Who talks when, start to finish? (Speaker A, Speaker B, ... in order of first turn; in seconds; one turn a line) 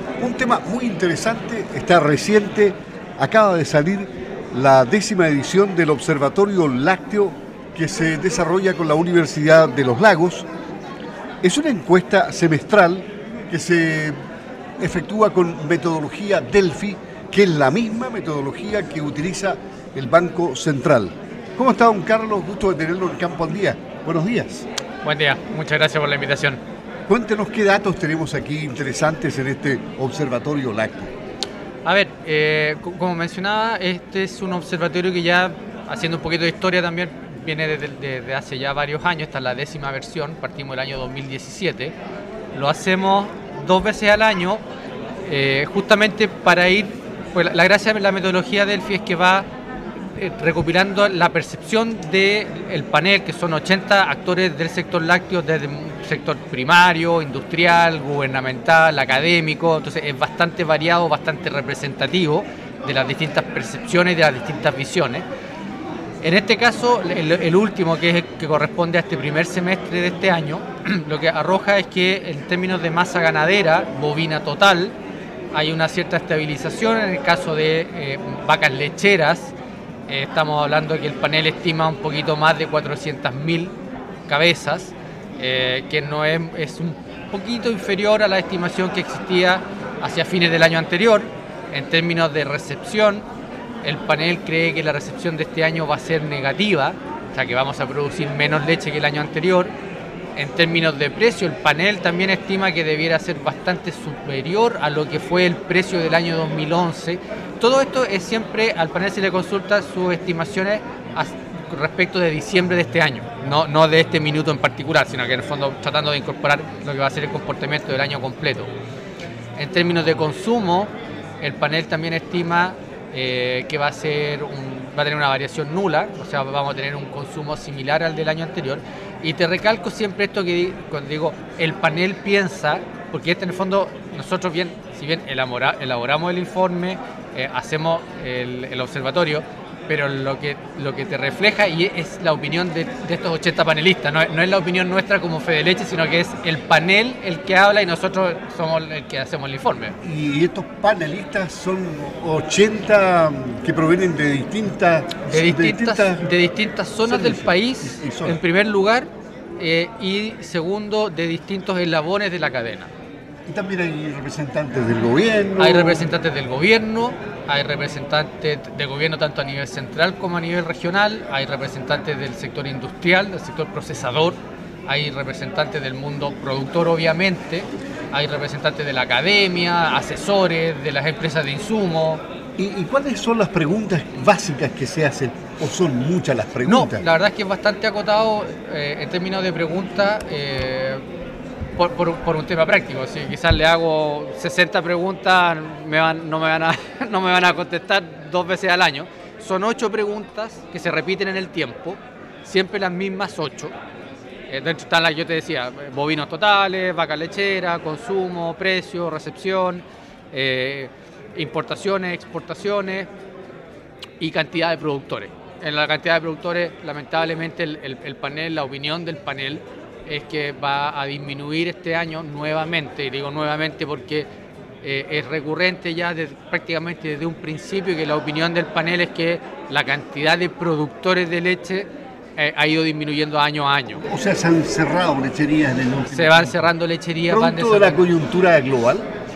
Speaker A: 0.2-10.5
Speaker A: 11.4-14.2
Speaker A: 14.8-24.7
Speaker B: 25.0-26.6
Speaker A: 27.1-31.1
Speaker B: 31.9-41.9
Speaker B: 42.5-44.6
Speaker B: 45.2-49.5
Speaker B: 50.1-65.2
Speaker B: 66.2-75.0
Speaker B: 75.5-79.5
Speaker B: 80.1-83.8
Speaker B: 84.3-93.3
Speaker B: 93.8-99.7
Speaker B: 100.4-118.7
Speaker B: 119.6-149.9
Speaker A: 150.0-156.3
Speaker B: 155.3-162.9
Speaker A: 157.1-158.4
Speaker A: 163.5-166.1
Speaker B: 165.6-182.2
Speaker A: 182.6-187.0
Speaker B: 186.7-191.0
Speaker B: 191.8-203.7
Speaker B: 204.5-213.1
Speaker B: 214.2-224.3
Speaker B: 224.8-234.1
Speaker A: 234.1-236.7
Speaker B: 236.1-238.1
Speaker A: 237.3-239.1